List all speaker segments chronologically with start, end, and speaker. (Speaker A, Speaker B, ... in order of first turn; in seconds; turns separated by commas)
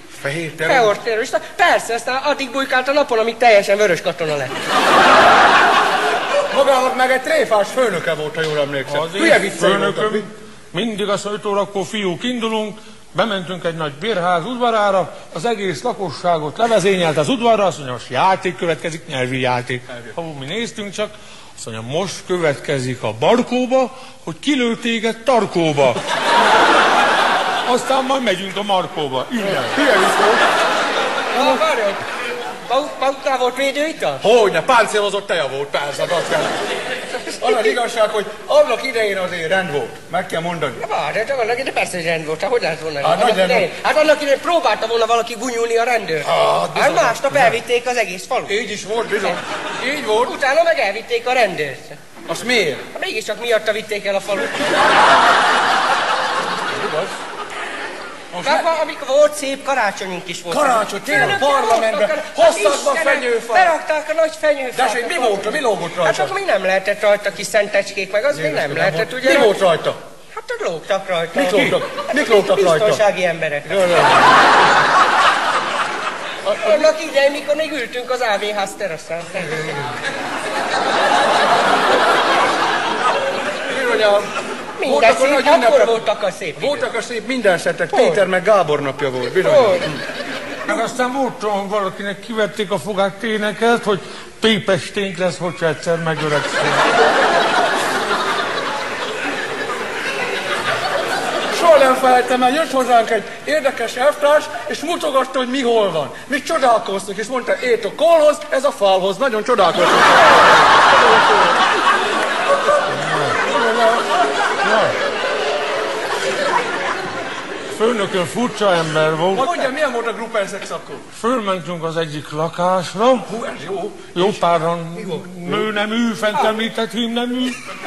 Speaker A: 0.1-1.0, Speaker B: 0.7-4.5, Speaker A: 6.5-10.3, Speaker C: 8.9-26.0, Speaker C: 27.6-29.8, Speaker A: 29.7-30.4, Speaker B: 31.3-32.0, Speaker B: 32.7-34.2, Speaker A: 34.2-36.5, Speaker B: 37.2-37.7, Speaker A: 37.4-40.8, Speaker B: 40.8-48.6, Speaker A: 43.0-43.7, Speaker A: 46.2-47.5, Speaker A: 48.5-50.4, Speaker B: 50.2-52.0, Speaker A: 52.3-52.9, Speaker B: 52.9-54.8, Speaker A: 56.7-57.2, Speaker A: 58.3-58.7, Speaker B: 58.4-69.5, Speaker A: 60.5-63.8, Speaker A: 64.8-66.4, Speaker A: 68.3-70.0, Speaker B: 70.3-73.8, Speaker A: 71.3-73.0, Speaker A: 73.7-74.2, Speaker A: 76.5-76.9, Speaker B: 76.6-79.7, Speaker A: 83.7-84.3, Speaker B: 84.8-86.9, Speaker A: 84.8-90.0, Speaker B: 87.9-88.2, Speaker B: 89.4-89.9, Speaker C: 90.7-96.8, Speaker A: 101.5-111.5, Speaker C: 112.9-113.4, Speaker A: 113.4-114.1, Speaker C: 114.6-114.9, Speaker C: 117.7-119.5, Speaker A: 119.3-121.1, Speaker C: 121.2-123.3, Speaker A: 123.3-124.4, Speaker C: 124.1-127.6, Speaker A: 125.0-125.7